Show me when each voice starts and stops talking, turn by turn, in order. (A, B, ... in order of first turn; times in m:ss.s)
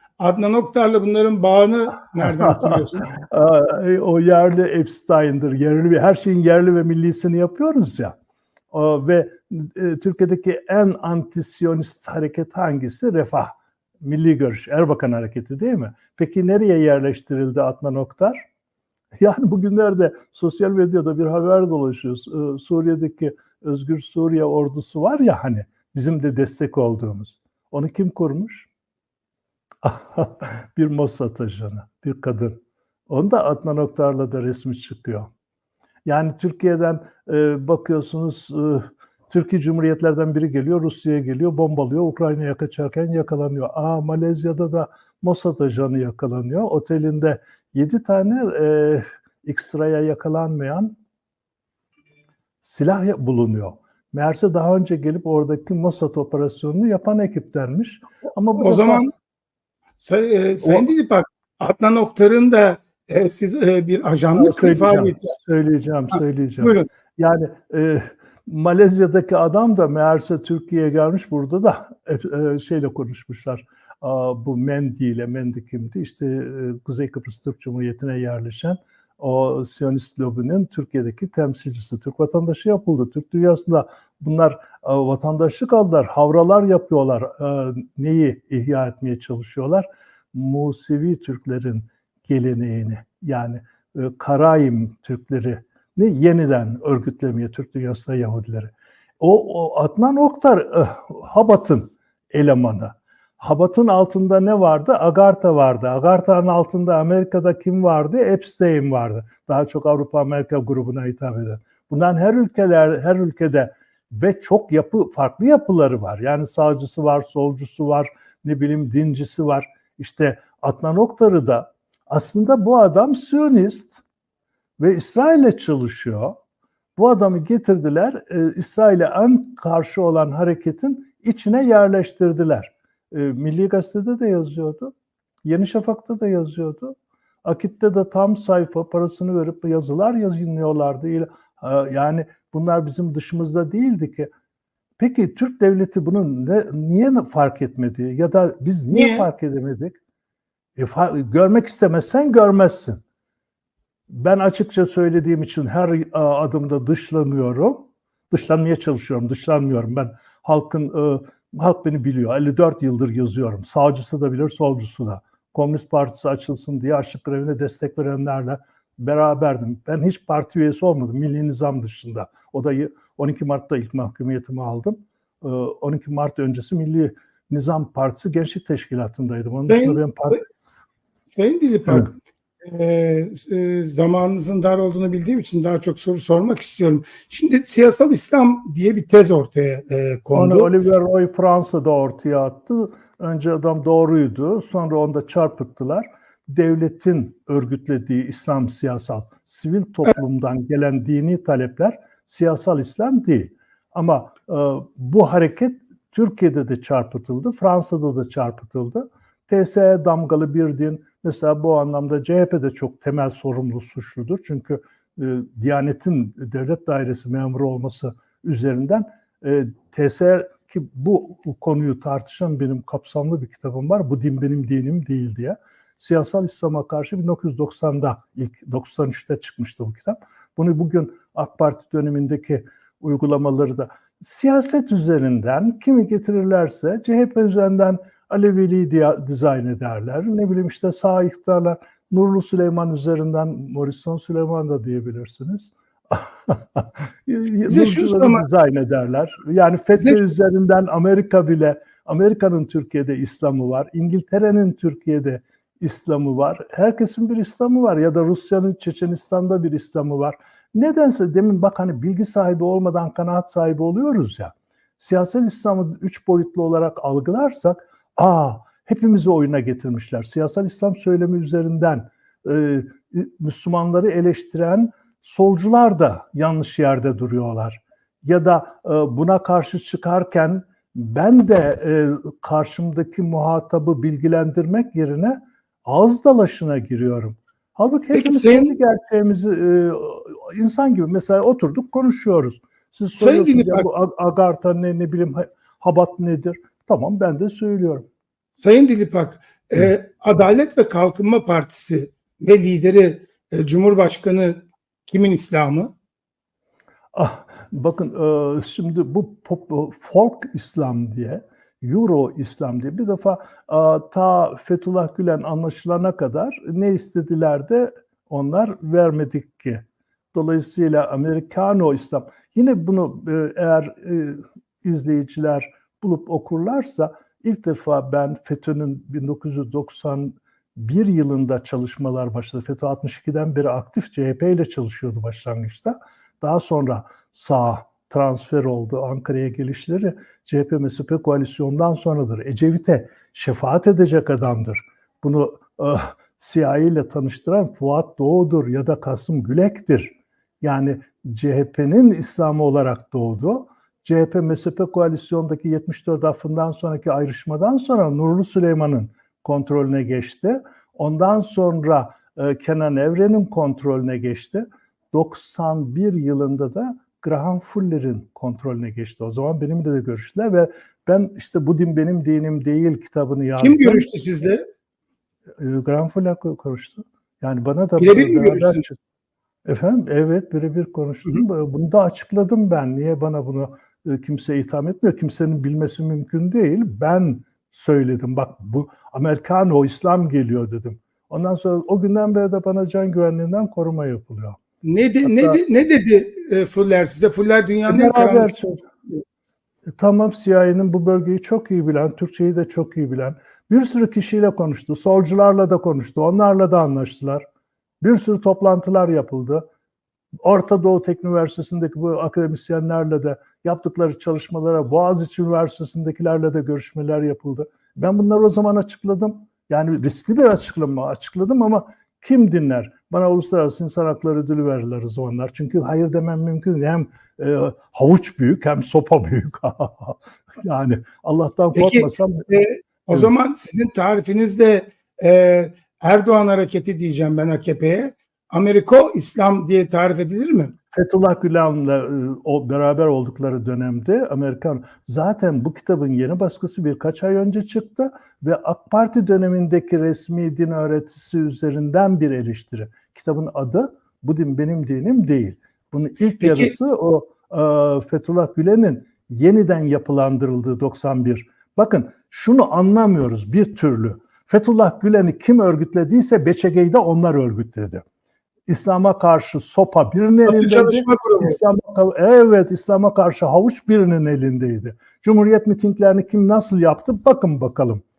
0:00.2-0:03.1 A
0:02.4-0:08.2 B
0:08.7-0:18.5 B
0:19.2-0:28.7 B
0:29.8-0:35.3 B
0:36.1-0:51.0 B
0:52.6-0:59.0 B
0:58.6-0:59.1 A
1:00.0-1:05.3 A
1:04.4-2:04.0 B
1:06.6-1:06.9 A
2:04.8-2:06.4 B
2:07.0-2:14.9 B
2:15.4-2:24.3 B
2:25.0-2:30.0 B
2:28.9-2:29.3 A
2:30.8-2:33.0 B
2:34.1-3:00.4 B
2:59.7-3:00.4 A
3:01.3-3:10.7 A
3:10.4-4:58.0 B
4:07.7-4:08.4 A
4:10.0-4:10.2 A
4:48.1-4:48.8 A
4:53.2-4:53.9 A
4:58.6-5:05.9 A
5:07.1-6:14.1 B
6:13.6-6:14.6 A
6:15.6-6:19.0 B
6:18.0-6:18.8 A
6:19.6-6:34.6 B
6:34.8-6:38.5 A
6:35.2-6:35.6 B
6:37.9-6:38.9 B
6:40.0-6:47.4 B
6:48.0-6:49.6 B
6:50.4-7:12.5 B
7:11.8-7:20.8 A
7:20.9-7:48.0 B
7:36.4-7:36.7 A
7:48.7-7:58.0 B
7:50.5-7:51.6 A